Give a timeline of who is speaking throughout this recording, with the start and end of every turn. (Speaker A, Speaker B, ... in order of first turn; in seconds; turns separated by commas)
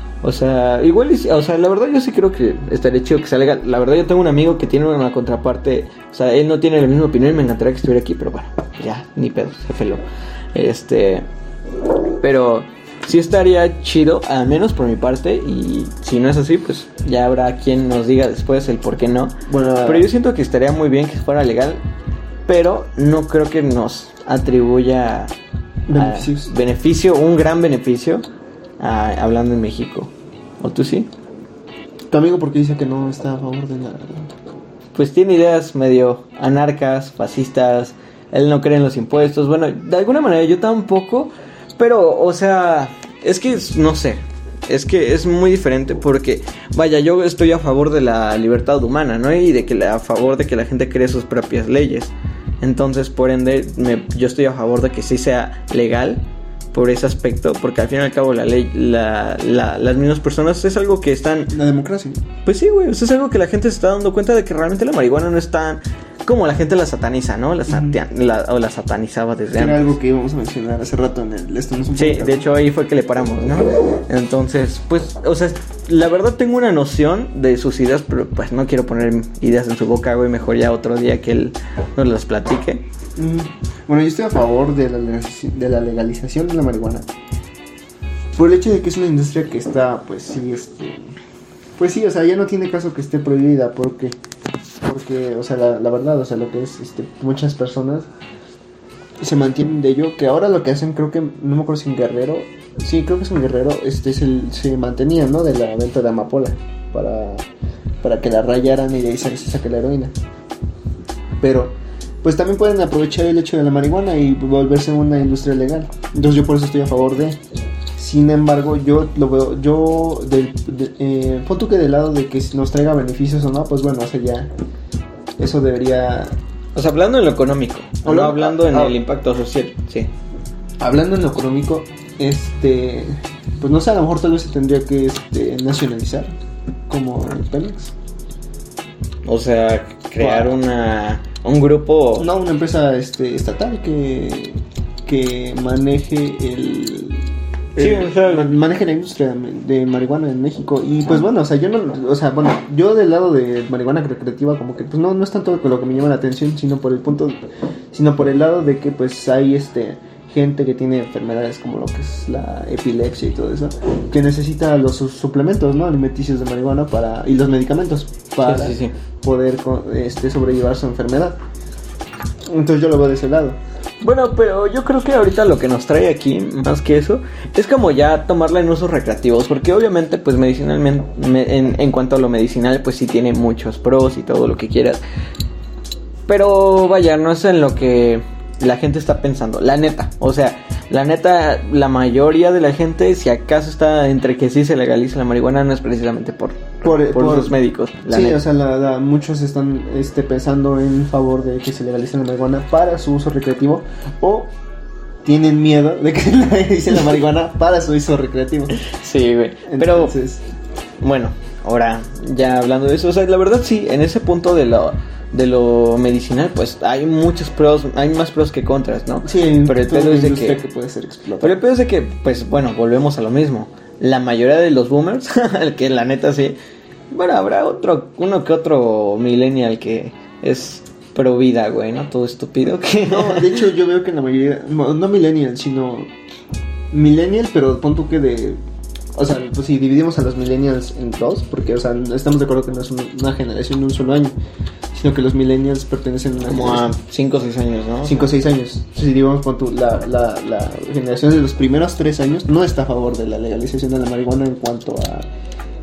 Speaker A: 0.2-11.3, Speaker A: 12.2-21.8, Speaker B: 19.5-20.1, Speaker A: 22.5-25.3, Speaker B: 25.9-26.5, Speaker A: 26.0-28.2, Speaker A: 28.8-31.1, Speaker B: 32.1-34.3, Speaker A: 34.9-56.2, Speaker A: 56.7-61.6, Speaker B: 61.5-62.2, Speaker A: 62.5-69.8, Speaker B: 67.7-68.0, Speaker B: 69.5-72.5, Speaker A: 72.0-82.8, Speaker B: 83.2-87.1, Speaker B: 88.4-91.0, Speaker B: 91.8-94.2, Speaker B: 94.8-98.1, Speaker B: 99.2-107.5, Speaker B: 108.0-110.1, Speaker B: 111.4-117.4, Speaker B: 118.0-124.5, Speaker B: 125.4-126.4, Speaker A: 126.8-130.1, Speaker B: 128.1-129.0, Speaker B: 130.8-136.3, Speaker B: 136.9-137.9, Speaker A: 139.2-142.3, Speaker B: 140.2-140.5, Speaker B: 142.2-171.4, Speaker A: 147.8-148.6, Speaker A: 168.4-168.9, Speaker B: 172.5-173.6, Speaker A: 174.0-185.0, Speaker A: 186.3-198.4, Speaker B: 196.8-197.6, Speaker B: 198.1-204.5, Speaker B: 205.2-208.8, Speaker A: 208.8-210.1, Speaker B: 209.7-210.4, Speaker A: 211.0-220.6, Speaker B: 219.2-221.6, Speaker A: 221.4-226.6, Speaker A: 227.1-233.6, Speaker B: 233.1-236.1, Speaker B: 236.9-238.6, Speaker B: 239.1-244.3, Speaker B: 244.9-246.9, Speaker A: 246.5-248.3, Speaker B: 248.0-255.3